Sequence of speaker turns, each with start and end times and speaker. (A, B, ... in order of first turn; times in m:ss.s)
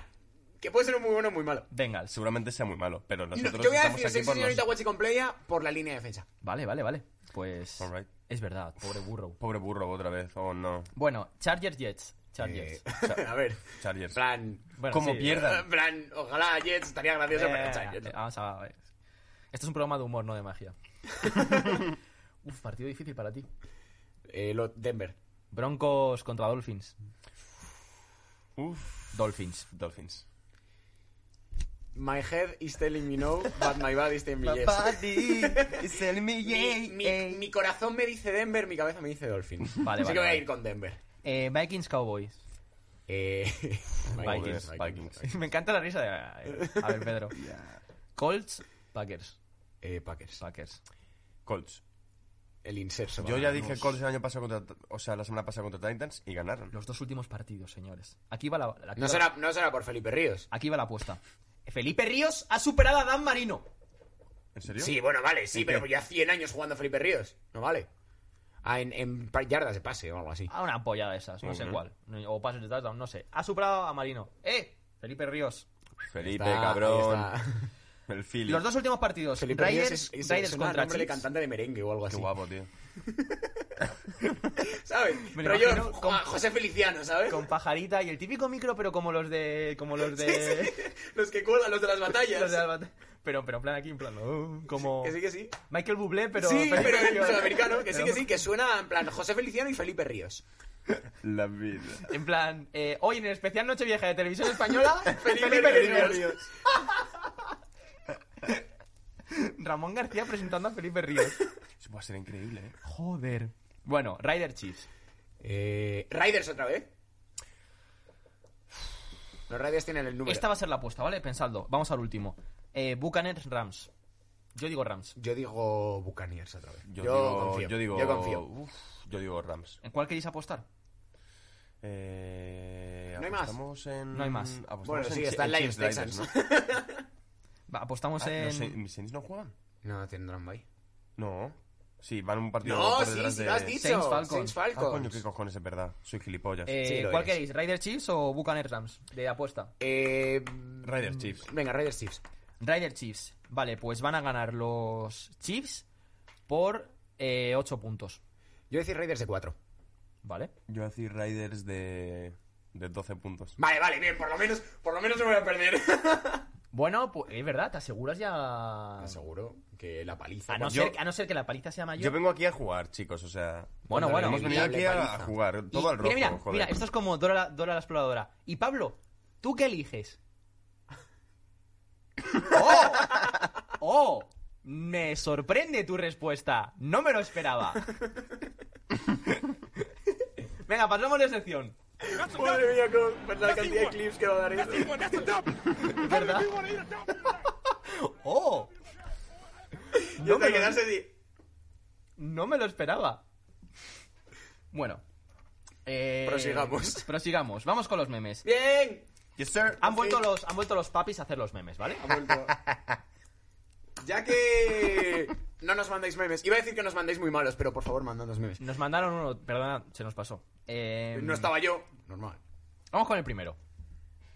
0:00.6-0:01.7 A
0:01.7-0:02.1 B
0:02.1-0:04.6 C
0:03.3-0:06.2 A
0:06.4-0:09.4 B
0:07.8-0:08.1 C
0:09.4-0:10.9 C
0:10.9-0:12.8 B
0:12.4-0:18.1 A
0:13.8-0:14.2 C
0:14.8-0:15.4 B
0:14.9-0:15.7 C
0:17.3-0:18.9 B
0:19.5-0:21.8 B
0:22.4-0:23.5 B
0:24.3-0:25.2 A
0:25.5-0:26.9 B
0:28.6-0:29.2 C
0:29.1-0:29.7 B
0:29.7-0:30.2 C
0:31.9-0:35.9 A
0:34.4-0:37.4 C
0:36.4-0:41.0 A
0:39.8-0:40.4 B
0:41.2-0:42.4 B
0:43.1-0:45.4 A
0:44.1-0:45.2 C
0:44.2-0:44.7 B
0:45.2-0:47.4 B
0:46.5-0:46.9 A
0:47.4-0:47.8 C
0:48.2-0:49.4 B
0:49.8-0:50.4 A
0:50.4-0:50.8 B
0:51.4-0:51.8 C
0:52.6-0:53.8 A
0:53.2-0:56.7 C
0:56.7-0:59.3 B
0:59.0-1:00.5 A
1:00.5-1:03.6 B
1:04.5-1:05.0 C
1:04.8-1:07.9 A
1:05.5-1:05.8 C
1:08.6-1:10.5 A
1:10.5-1:15.7 B
1:11.4-1:11.8 C
1:16.1-1:17.3 C
1:16.2-1:17.7 A
1:18.1-1:18.6 C
1:18.5-1:21.2 B
1:19.4-1:22.3 A
1:22.1-1:22.7 C
1:23.1-1:23.5 A
1:24.6-1:27.4 A
1:25.3-1:26.2 B
1:27.3-1:30.8 B
1:30.1-1:32.6 A
1:32.1-1:35.2 B
1:34.7-1:35.5 A
1:35.7-1:38.2 B
1:36.4-1:40.4 A
1:40.9-1:42.1 C
1:42.0-1:46.3 B
1:45.0-1:46.3 A
1:45.4-1:46.4 C
1:49.3-1:51.4 B
1:51.8-1:52.8 C
1:52.8-1:54.9 B
1:55.4-1:56.9 A
1:59.5-2:00.4 A
2:00.2-2:03.9 B
2:04.5-2:05.2 B
2:05.2-2:08.4 A
2:06.9-2:09.8 C
2:09.8-2:10.6 B
2:11.8-2:16.3 C
2:13.2-2:13.6 A
2:14.1-2:14.6 B
2:14.8-2:17.0 A
2:17.7-2:18.8 B
2:18.2-2:19.5 C
2:19.8-2:20.6 A
2:21.2-2:23.8 C
2:22.6-2:25.2 A
2:23.7-2:24.6 B
2:24.7-2:26.8 C
2:26.6-2:29.7 B
2:26.8-2:27.3 A
2:29.8-2:32.2 A
2:30.8-2:31.5 C
2:32.6-2:35.8 B
2:36.5-2:38.2 B
2:38.7-2:39.5 A
2:40.2-2:40.5 B
2:40.7-2:43.6 C
2:43.6-2:46.5 A
2:46.7-2:49.2 B
2:49.0-2:50.9 A
2:50.5-2:52.2 B
2:50.6-2:50.9 C
2:52.0-2:56.8 C
2:53.9-2:54.7 B
2:53.9-2:55.3 A
2:55.7-3:00.2 B
3:02.4-3:07.9 B
3:10.6-3:11.7 B
3:12.0-3:15.4 A
3:15.8-3:16.6 B
3:17.9-3:18.7 B
3:20.0-3:21.1 A
3:20.2-3:20.8 B
3:22.2-3:23.2 B
3:24.7-3:25.0 B
3:25.8-3:28.4 B
3:26.2-3:27.0 A
3:28.4-3:29.0 A
3:29.4-3:30.0 C
3:29.8-3:32.1 B
3:29.9-3:30.2 A
3:32.0-3:32.6 A
3:34.0-3:38.6 A
3:38.6-3:41.5 B
3:41.1-3:42.4 A
3:42.9-3:43.6 B